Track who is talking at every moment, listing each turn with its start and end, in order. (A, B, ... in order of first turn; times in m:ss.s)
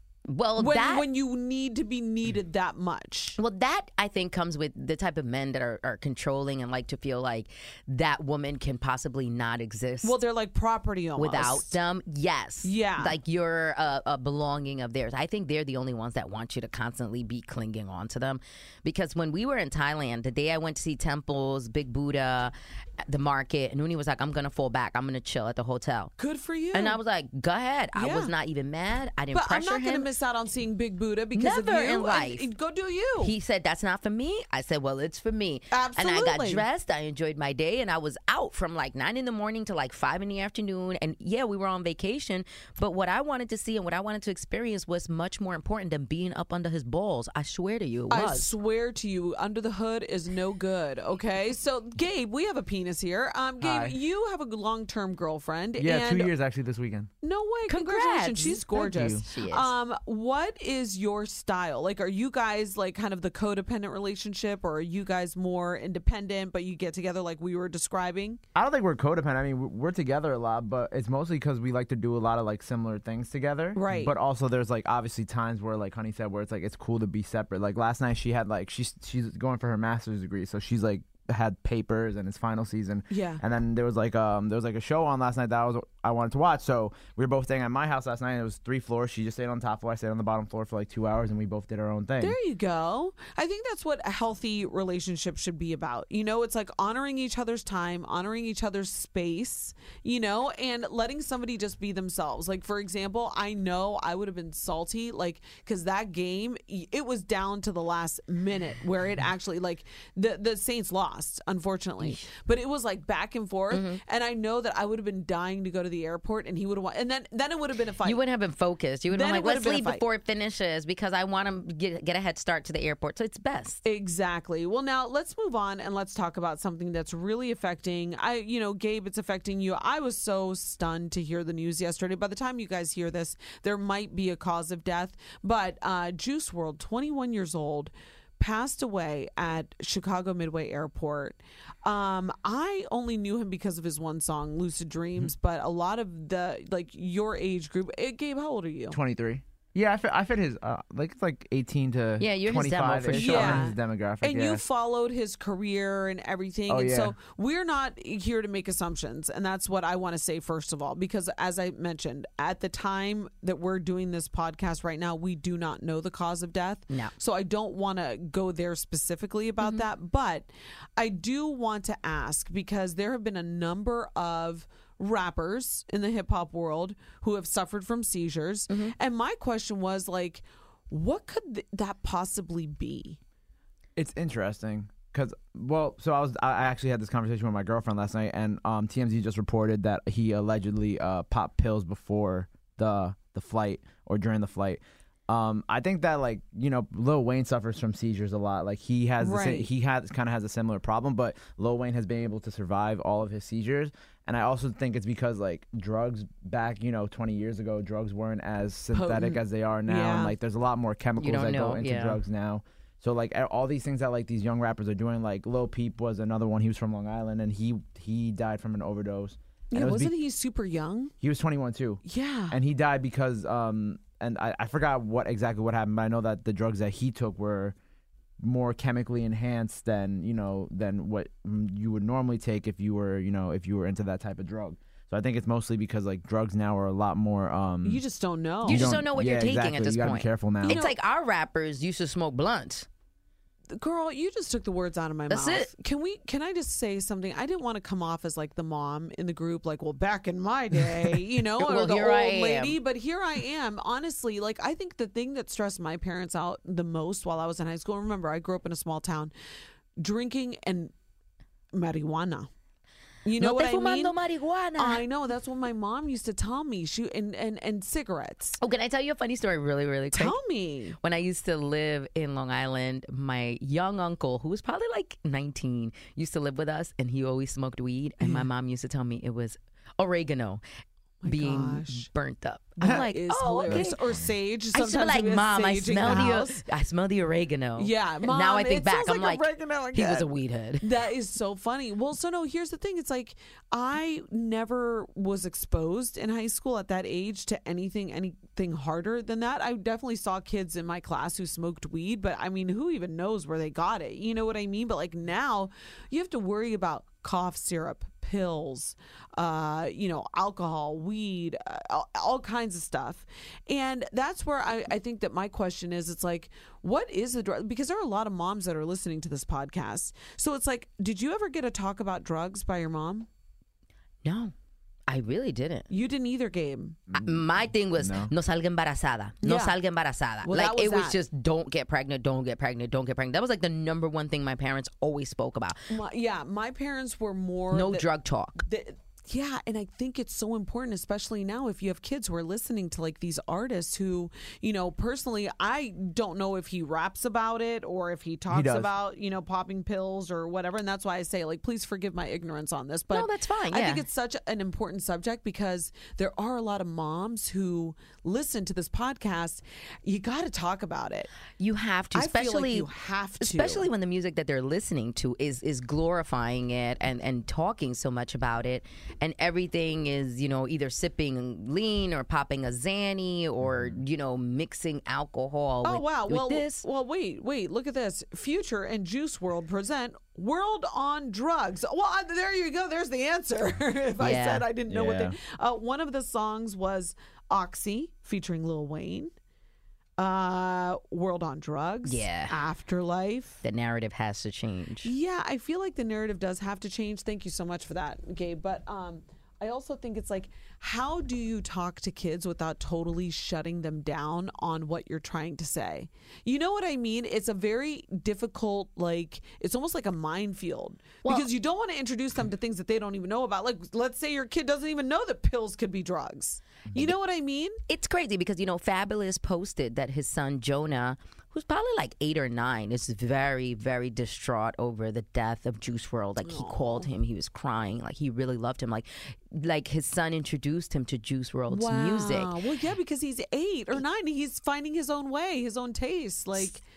0:00.3-0:01.0 A
0:00.6-0:03.4 B
0:03.4-0:10.2 A
0:10.0-0:11.8 B
0:11.2-0:26.1 A
0:12.6-0:13.2 B
0:26.2-0:27.0 B
0:26.7-0:30.1 A
0:27.9-0:28.3 B
0:29.3-0:33.3 B
0:31.3-0:32.5 A
0:33.2-0:48.5 A
0:35.7-0:36.6 B
0:48.1-0:56.3 B
0:53.6-0:53.9 C
0:55.8-0:57.1 C
0:57.2-1:08.4 B
0:57.7-0:59.7 A
0:58.8-0:59.2 C
1:08.6-1:32.4 C
1:13.7-1:14.1 B
1:23.1-1:23.4 B
1:32.2-1:58.2 B
1:53.7-1:54.0 A
1:58.0-2:03.8 A
1:59.1-2:00.0 B
2:03.8-2:29.0 B
2:28.9-2:34.6 C
2:32.2-2:33.7 A
2:33.1-3:03.2 B
2:36.7-2:37.1 C
3:04.0-3:40.1 C
3:19.2-3:19.7 B
3:28.9-3:30.3 B
3:31.2-3:32.2 A
3:39.7-3:41.1 B
3:41.2-3:47.7 C
3:42.0-3:42.6 B
3:48.4-3:58.0 C
3:57.8-3:59.0 B
3:58.6-4:00.8 C
3:58.6-4:02.9 A
4:00.6-4:00.9 B
4:03.7-4:19.3 B
4:05.3-4:05.7 A
4:11.6-4:12.8 A
4:20.0-4:20.9 B
4:21.7-4:22.5 B
4:23.2-4:24.2 B
4:23.4-4:25.0 A
4:24.8-4:28.6 B
4:28.6-4:30.3 A
4:30.1-4:31.0 B
4:31.0-4:40.6 A
4:38.2-4:38.5 B
4:41.2-4:42.1 B
4:41.2-4:44.0 A
4:42.8-4:46.6 B
4:43.7-4:44.2 C
4:44.7-4:50.8 A
4:47.8-4:50.3 B
4:50.8-5:23.3 B
5:24.2-5:24.5 A
5:25.1-5:25.8 A
5:25.9-5:27.0 B
5:27.1-5:28.3 C
5:27.2-5:35.8 A
5:29.4-5:29.8 B
5:30.4-5:31.2 B
5:35.9-5:38.1 B
5:37.7-5:38.6 A
5:38.6-6:01.3 B
5:48.5-5:48.9 C
5:53.1-5:54.0 A
6:01.6-6:02.9 A
6:02.1-6:03.9 B
6:03.4-6:16.8 A
6:13.6-6:14.0 C
6:15.8-6:29.3 B
6:24.2-6:24.6 A
6:24.9-6:25.4 C
6:30.2-6:33.6 B
6:32.0-6:32.6 A
6:33.6-6:35.1 A
6:35.0-6:57.8 B
6:57.9-7:12.5 A
7:06.4-7:07.1 B
7:11.7-7:16.8 B